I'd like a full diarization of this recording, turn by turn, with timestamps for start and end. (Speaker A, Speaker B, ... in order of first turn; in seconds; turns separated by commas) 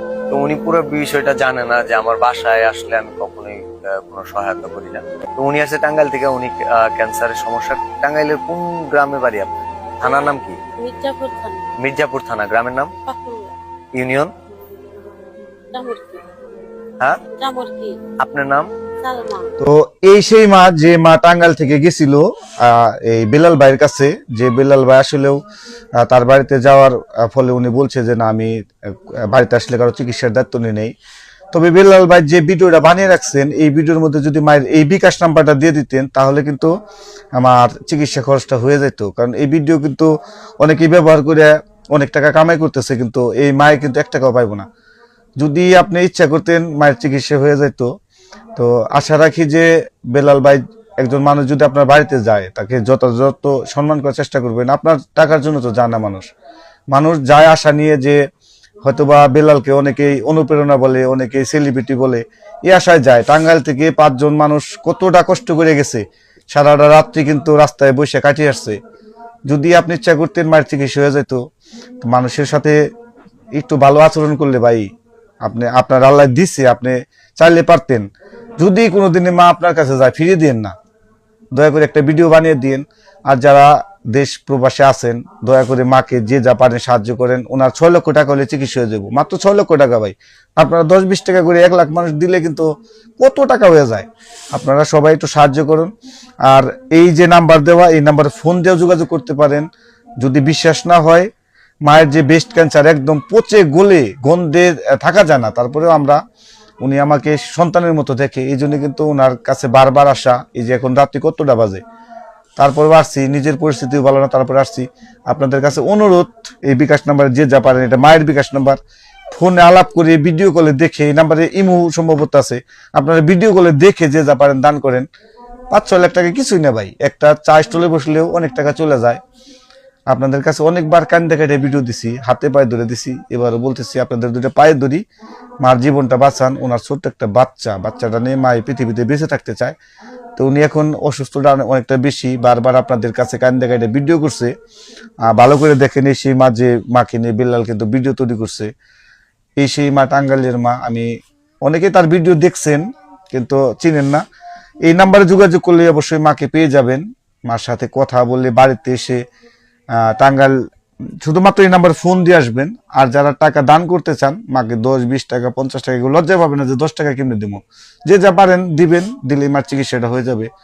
Speaker A: 0.3-9.5, Speaker A: 10.0-10.6, Speaker B: 10.8-11.7, Speaker A: 11.8-12.9, Speaker B: 13.1-13.5, Speaker A: 13.9-14.3, Speaker B: 15.7-16.2, Speaker B: 17.3-18.0, Speaker A: 18.2-18.7, Speaker B: 19.0-19.5, Speaker C: 19.6-25.4, Speaker C: 26.0-30.9, Speaker C: 31.5-36.7, Speaker C: 37.4-40.1, Speaker C: 40.6-44.7, Speaker C: 45.4-47.9, Speaker C: 48.5-56.3, Speaker C: 56.9-58.2, Speaker C: 58.8-68.8, Speaker C: 69.5-71.4, Speaker C: 72.0-72.8, Speaker C: 73.6-74.9, Speaker C: 75.4-78.0, Speaker C: 78.6-80.7, Speaker C: 81.5-92.7, Speaker C: 93.2-95.9, Speaker C: 96.5-99.7, Speaker C: 100.2-101.3, Speaker C: 101.9-106.2, Speaker C: 106.8-111.8, Speaker C: 112.6-118.8, Speaker C: 119.3-125.1, Speaker C: 125.7-129.2, Speaker C: 130.1-135.0, Speaker C: 135.6-139.8, Speaker C: 140.4-144.5, Speaker C: 145.3-148.7, Speaker C: 149.6-151.1, Speaker C: 151.6-154.2, Speaker C: 154.9-159.2, Speaker C: 160.0-160.6, Speaker C: 161.2-170.5